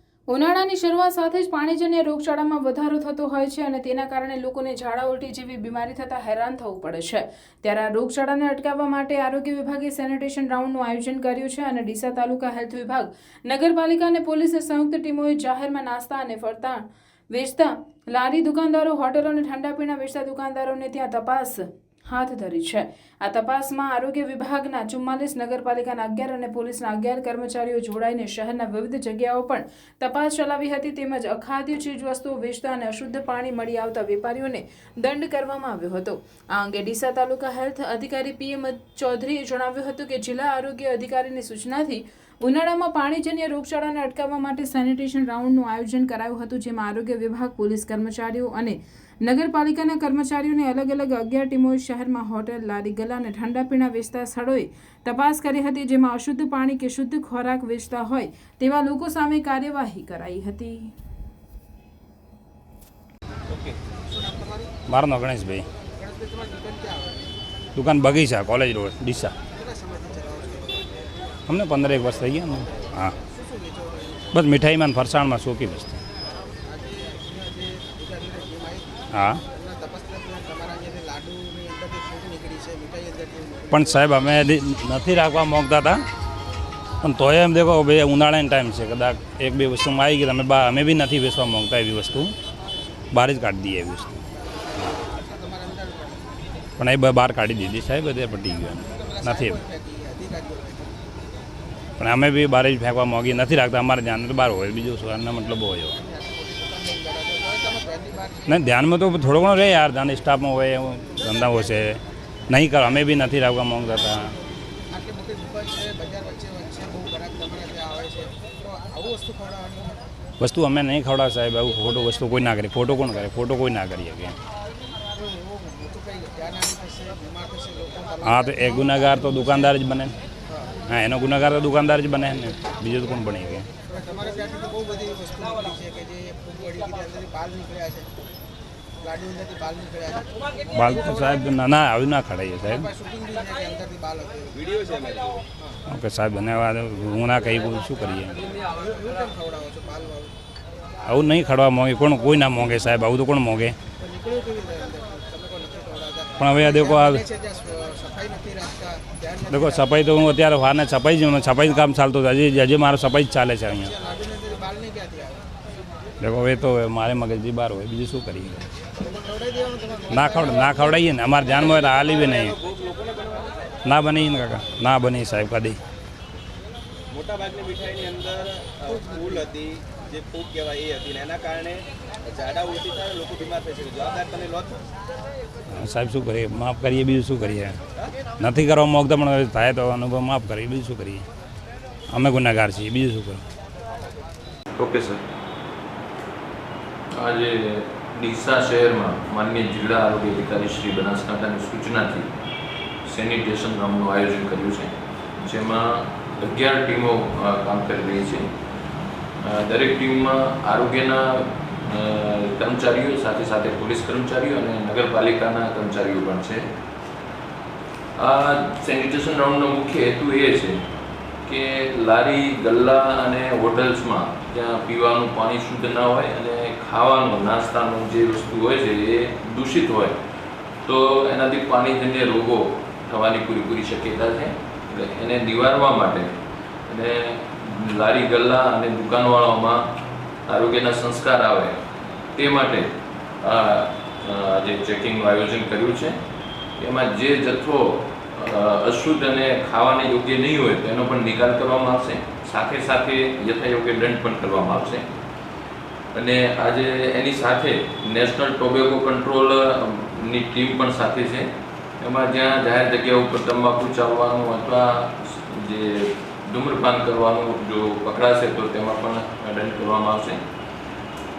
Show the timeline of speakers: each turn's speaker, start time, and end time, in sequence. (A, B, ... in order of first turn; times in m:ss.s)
0:00.3-1:00.9 A
1:03.8-1:04.7 B
1:04.9-1:05.6 C
1:06.0-1:07.3 B
1:07.7-1:09.3 C
1:09.5-1:11.0 B
1:11.5-1:13.1 C
1:13.2-1:14.3 B
1:14.3-1:16.0 C
1:16.6-1:23.8 B
1:19.1-1:19.4 C
1:23.7-1:26.0 C
1:27.0-1:32.3 C
1:33.1-1:34.2 C
1:34.7-1:36.3 B
1:36.8-1:39.6 C
1:38.9-1:40.9 B
1:42.0-1:46.0 C
1:45.9-1:48.5 B
1:48.5-1:54.3 C
1:54.9-2:00.0 B
2:00.4-2:04.3 C
2:05.1-2:09.7 B
2:08.2-2:10.1 C
2:10.5-2:10.8 B
2:10.9-2:13.7 C
2:13.9-2:18.1 B
2:19.0-2:21.4 B
2:20.7-2:22.9 C
2:22.7-2:24.6 B
2:24.9-2:25.4 D
2:25.9-2:28.4 C
2:28.6-2:30.3 B
2:31.0-2:33.8 C
2:34.0-2:39.9 B
2:36.4-2:37.2 C
2:39.5-2:43.9 C
2:43.8-2:45.4 B
2:46.2-2:48.6 C
2:49.0-2:51.0 B
2:50.1-2:52.6 C
2:52.7-2:53.5 D
2:53.8-2:55.8 C
2:57.1-2:58.8 D
2:58.9-2:59.4 B
2:59.5-3:04.8 D
3:05.7-3:07.8 C
3:08.4-3:11.2 C
3:12.1-3:13.4 C
3:14.8-3:15.1 D
3:17.1-3:22.3 E
3:23.0-3:28.5 E
3:29.4-3:36.6 E
3:38.2-3:40.8 E
3:41.4-3:50.2 E
3:50.8-3:56.3 E
3:56.9-3:59.8 E
4:00.5-4:01.8 E
4:02.3-4:02.9 E
4:03.4-4:06.2 E
4:06.8-4:15.0 E
4:16.1-4:21.5 E
4:22.0-4:30.4 E